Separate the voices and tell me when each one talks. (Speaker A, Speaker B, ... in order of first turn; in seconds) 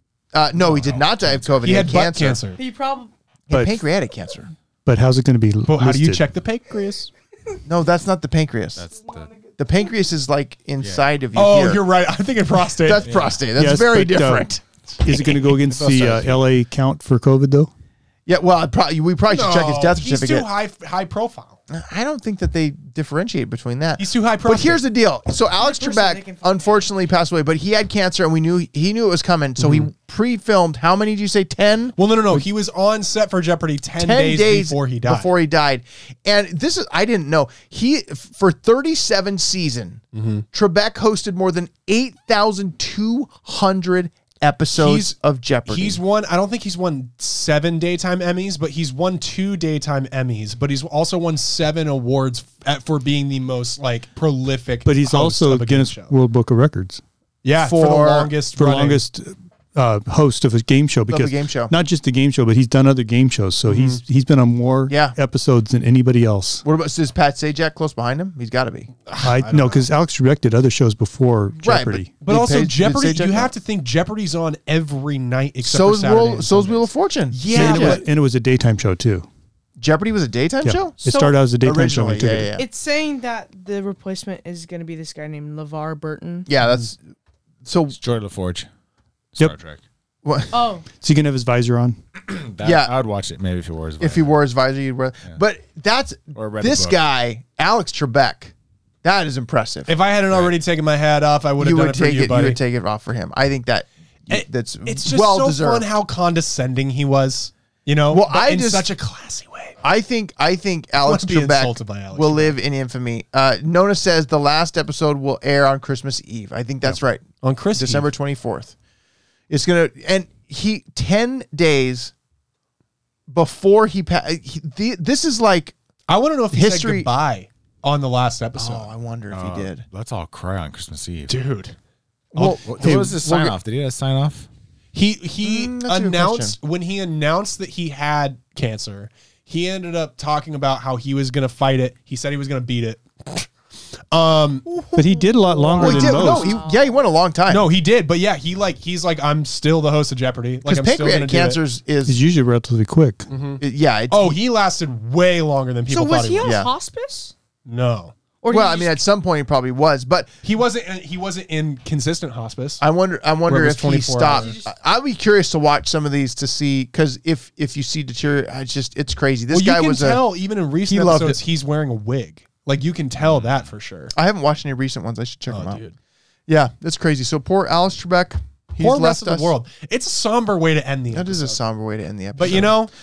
Speaker A: 0.3-2.4, 3.5-4.5, 7.7-8.8, 9.6-11.9, 12.8-14.6, 18.2-20.5, 21.7-32.0, 34.0-46.0, 57.6-58.3, 61.1-61.7, 64.9-65.1, 66.6-68.9, 71.6-73.5, 75.6-78.0, 79.8-81.0, 81.6-82.7, 86.5-87.0, 87.6-88.0, 90.2-90.5, 92.6-92.9, 94.0-99.9, 101.6-105.9, 108.1-108.9, 109.8-118.7, 119.5-122.1, 123.3-125.7, 126.5-127.1, 128.6-129.8, 132.3-133.6, 135.4-136.6, 145.8-147.7, 150.6-152.2, 153.6-154.4, 156.4-156.7, 158.5-160.3, 162.8-170.2, 170.9-171.4, 174.1-175.8, 176.5-179.5, 181.1-182.8
Speaker B: 0.6-1.5, 8.8-9.3, 10.8-11.1, 13.0-13.4, 15.1-16.4, 88.0-88.7, 89.3-89.8, 92.2-94.4, 96.3-97.0, 129.3-131.3, 132.4-134.5, 173.2-173.6
Speaker C: 1.6-2.6, 5.7-7.1, 11.3-13.1, 19.3-21.6, 24.0-24.8, 29.6-29.9, 32.0-35.3, 40.1-40.4, 44.7-45.1, 45.7-56.1, 57.4-59.0, 63.7-64.0, 69.0-69.9, 72.2-78.0, 99.9-102.6, 104.3-109.8, 111.0-112.6, 117.4-118.1, 126.1-128.9, 131.3-131.8, 134.9-143.5, 144.1-144.8, 145.8-146.3, 147.5-151.6, 153.3-156.6, 157.7-158.1, 160.4-162.8, 163.4-164.5, 169.5-174.1, 175.5-175.9, 178.8-181.6, 182.4-182.9
Speaker D: 2.5-3.1, 25.6-26.9, 81.0-81.4, 82.5-86.5, 90.5-90.9, 145.3-147.0, 155.9-157.3, 158.4-159.0, 164.3-164.7
Speaker E: 3.5-3.8, 4.8-6.3, 13.6-14.5, 15.0-17.7, 54.8-57.0, 58.5-66.6, 69.2-72.1, 77.5-79.3, 80.6-82.5, 91.0-92.0, 144.9-146.6, 152.1-153.3